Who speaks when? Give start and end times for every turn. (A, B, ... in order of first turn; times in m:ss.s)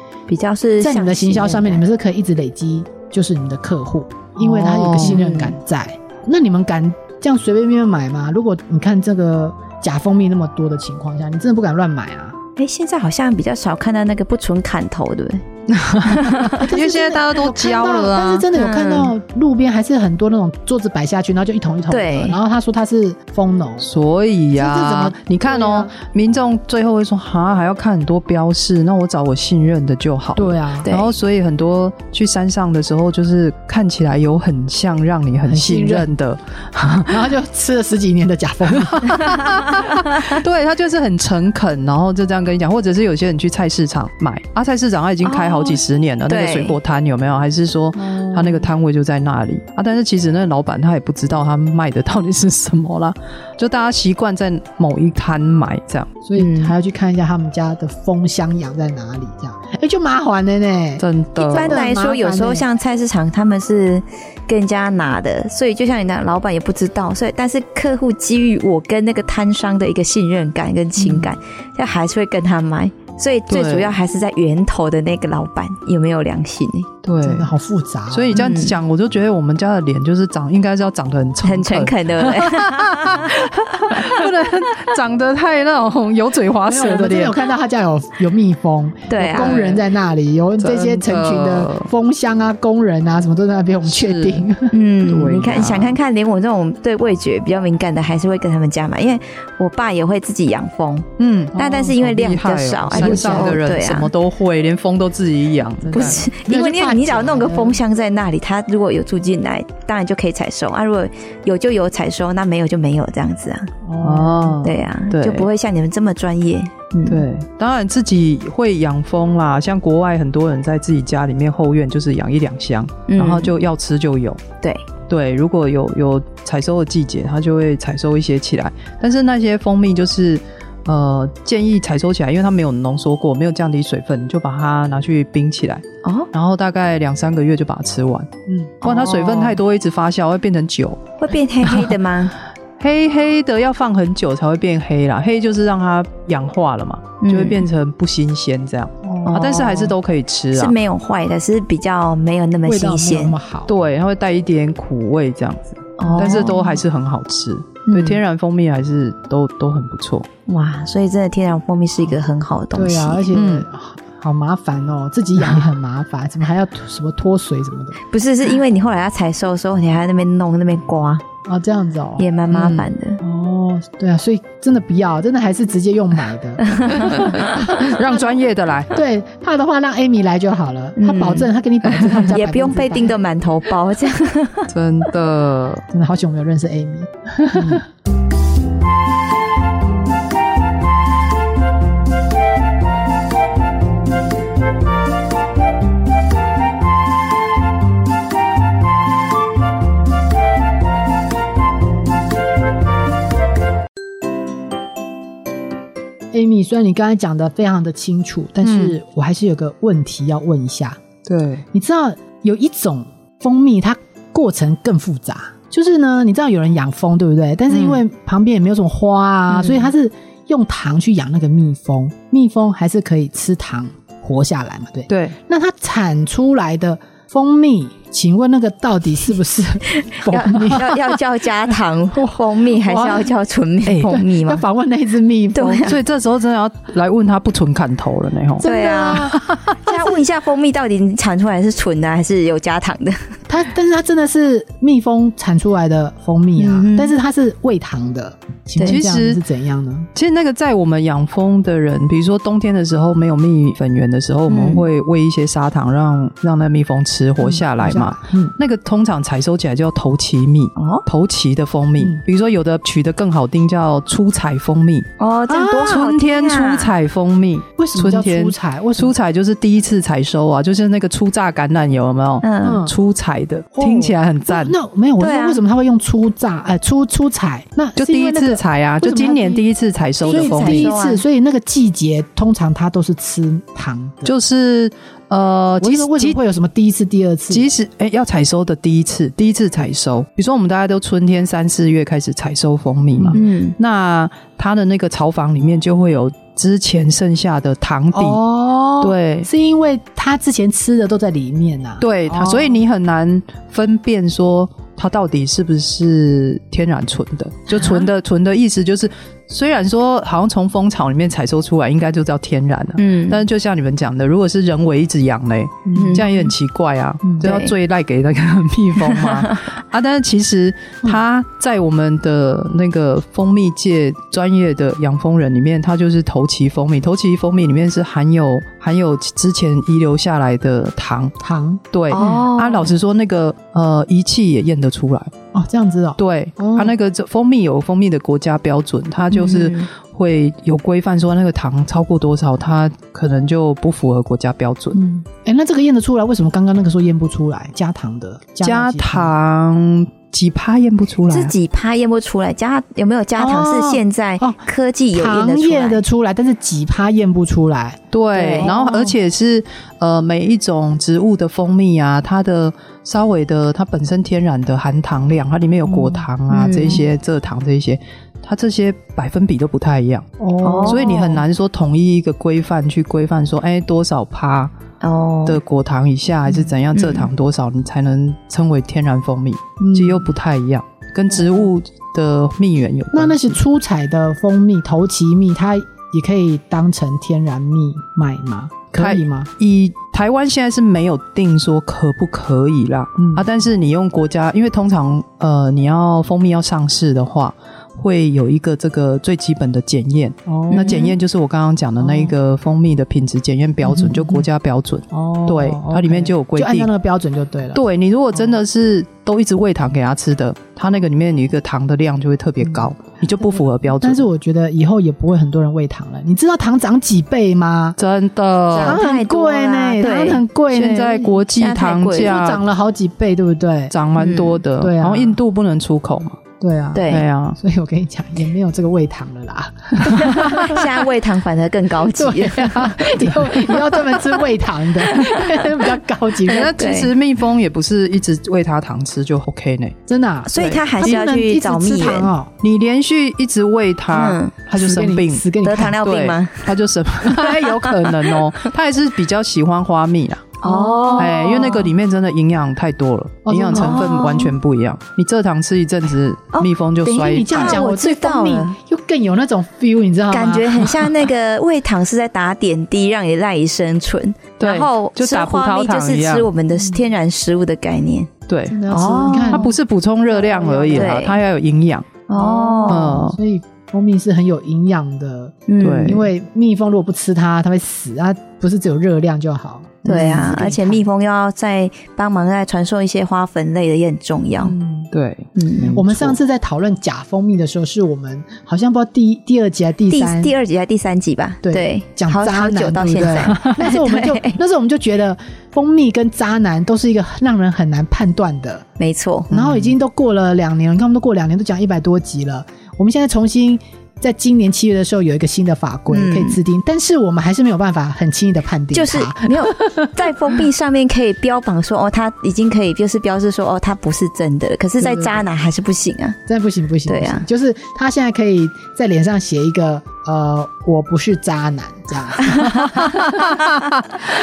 0:00.3-0:01.8 A
0:00.8-0:12.4 B
0:04.4-0:05.2 C
0:05.0-0:05.6 A
0:12.6-0:15.4 A
0:15.7-0:18.5 C
0:16.1-0:16.6 A
0:16.5-0:23.9 B
0:18.5-0:19.1 A
0:21.9-0:22.4 A
0:23.8-0:37.3 C
0:24.6-0:25.9 B
0:30.4-0:30.9 B
0:30.8-0:31.1 A
0:35.4-0:36.1 B
0:37.1-0:39.2 B
0:38.8-0:56.1 C
0:45.2-0:46.8 A
0:48.0-0:48.7 B
0:56.2-1:02.7 B
0:56.4-0:56.7 A
1:01.0-1:01.8 C
1:01.4-1:16.9 A
1:11.0-1:11.3 C
1:13.5-1:13.9 C
1:17.0-1:17.5 C
1:17.2-1:18.5 B
1:18.1-1:27.4 C
1:18.3-1:18.8 A
1:21.4-1:24.2 A
1:26.7-1:34.7 B
1:29.1-1:29.6 A
1:29.3-1:29.9 C
1:30.6-1:31.9 C
1:33.8-1:34.5 C
1:34.7-1:44.1 A
1:35.0-1:36.0 C
1:41.2-1:46.3 C
1:42.9-1:43.6 B
1:45.8-1:47.8 B
1:45.9-1:53.7 A
1:53.8-1:54.6 B
1:54.0-1:55.5 C
1:54.6-1:57.2 A
1:57.1-2:04.4 C
2:03.1-2:03.5 A
2:05.1-2:21.9 C
2:18.5-2:18.7 B
2:18.8-2:19.6 A
2:21.2-2:22.3 A
2:22.8-2:30.8 C
2:27.2-2:27.6 A
2:29.0-2:29.9 B
2:29.2-2:29.9 A
2:30.5-2:33.4 A
2:32.6-2:33.7 B
2:33.7-2:40.3 C
2:36.0-2:36.6 A
2:36.1-2:36.8 B
2:37.9-2:38.2 A
2:40.5-2:43.3 A
2:42.7-2:48.0 B
2:43.3-2:43.7 C
2:48.1-2:51.2 A
2:51.5-2:52.3 B
2:52.2-2:53.2 A
2:52.5-2:52.9 C
2:53.2-2:57.9 B
2:56.6-2:57.6 A
2:57.1-2:58.9 C
2:58.9-3:03.2 B
3:01.0-3:01.5 A
3:02.1-3:04.7 A
3:04.7-3:05.8 C
3:05.9-3:07.8 B
3:26.3-3:31.0 B
3:28.6-3:29.0 C
3:31.3-3:31.6 C
3:31.7-3:51.0 B
3:37.7-3:38.0 C
3:39.5-3:39.8 A
3:45.1-3:45.4 C
3:50.0-3:54.6 A
3:52.2-3:53.3 B
3:53.9-3:54.2 C
3:54.0-3:56.0 B
3:55.5-3:56.0 A
3:55.8-3:59.7 C
3:58.6-3:59.4 B
3:58.6-4:03.3 A
4:03.5-4:10.1 B
4:06.6-4:07.1 A
4:08.8-4:09.4 C
4:10.2-4:25.1 C
4:14.5-4:14.8 A
4:17.4-4:18.6 B
4:20.8-4:21.0 A
4:25.2-4:26.9 A
4:25.5-4:26.0 B
4:25.7-4:34.8 C
4:27.8-4:29.1 B
4:32.4-4:32.8 A
4:32.6-4:33.0 B
4:33.8-4:39.6 B
4:35.2-4:35.6 A
4:38.0-4:40.9 C
4:40.2-4:44.3 B
4:40.2-4:41.2 A
4:44.2-4:46.4 C
4:45.8-4:47.7 B
4:47.5-4:58.4 C
4:53.3-4:53.8 A
4:58.1-5:02.8 B
4:59.0-4:59.5 C
5:02.0-5:31.4 C
5:13.0-5:13.4 A
5:15.8-5:16.5 B
5:15.9-5:16.3 A
5:17.4-5:17.7 A
5:19.1-5:19.5 A
5:31.4-5:31.8 B
5:31.9-5:35.3 C
5:32.1-5:32.9 A
5:35.5-5:37.0 B
5:36.2-5:45.0 C
5:39.3-5:39.9 A
5:44.9-5:49.3 B
5:48.6-5:51.5 C
5:51.3-5:56.0 A
5:53.4-5:58.0 B
5:58.1-6:14.7 C
5:58.3-5:58.7 A
5:58.6-5:59.2 B
6:05.9-6:07.0 B
6:06.5-6:07.0 A
6:10.4-6:11.4 B
6:10.6-6:11.1 A
6:15.0-6:15.6 A
6:15.5-6:23.6 C
6:16.5-6:16.7 B
6:17.0-6:17.3 A
6:19.8-6:20.3 B
6:21.3-6:21.7 B
6:23.1-6:29.5 B
6:28.9-6:46.9 C
6:33.2-6:33.5 B
6:40.5-6:41.2 B
6:40.7-6:41.1 A
6:42.0-6:42.4 B
6:43.8-6:44.5 B
6:45.1-6:47.8 B
6:47.7-6:54.2 C
6:48.4-6:48.6 B
6:52.6-6:52.9 B
6:53.4-6:58.0 B
6:58.0-6:59.0 C
6:58.7-7:00.4 A
6:58.8-7:01.5 B
7:00.7-7:02.6 C
7:01.6-7:02.4 A
7:02.1-7:03.9 B
7:03.9-7:06.4 C
7:04.2-7:04.6 A
7:04.8-7:05.4 B
7:06.6-7:10.8 B
7:06.9-7:07.2 A
7:07.1-7:07.6 C
7:10.2-7:14.4 A
7:12.1-7:16.7 B
7:15.1-7:15.7 A
7:16.4-7:20.0 C
7:16.5-7:17.1 A
7:20.1-7:22.5 B
7:20.5-7:22.3 A
7:20.6-7:21.2 C
7:22.6-7:30.6 C
7:24.1-7:24.5 A
7:24.7-7:26.0 B
7:25.6-7:26.7 A
7:30.6-7:31.9 A
7:30.6-7:31.4 B
7:31.2-7:37.8 C
7:33.5-7:34.4 B
7:33.7-7:34.5 A
7:36.5-7:38.7 A
7:37.1-7:41.0 B
7:40.3-7:48.3 A
7:44.6-7:46.5 C
7:46.7-7:47.1 B
7:48.5-7:48.8 C
7:48.7-7:51.2 B
7:48.9-7:49.7 A
7:49.5-7:52.2 C
7:51.0-7:51.3 A
7:52.3-7:53.2 A
7:52.4-8:01.0 B
7:52.8-7:53.4 C
7:55.7-7:56.2 A
7:55.8-7:56.2 C
8:00.1-8:00.5 C
8:00.1-8:04.8 A
8:04.6-8:05.1 B
8:05.1-8:06.4 C
8:05.6-8:06.0 A
8:05.9-8:10.5 B
8:10.1-8:14.6 A
8:11.6-8:18.8 B
8:19.0-8:19.5 A
8:19.5-8:19.9 C
8:19.5-8:30.1 B
8:26.1-8:26.6 A
8:28.9-8:36.4 A
8:36.5-8:43.5 B
8:37.1-8:37.5 A
8:42.5-8:42.8 A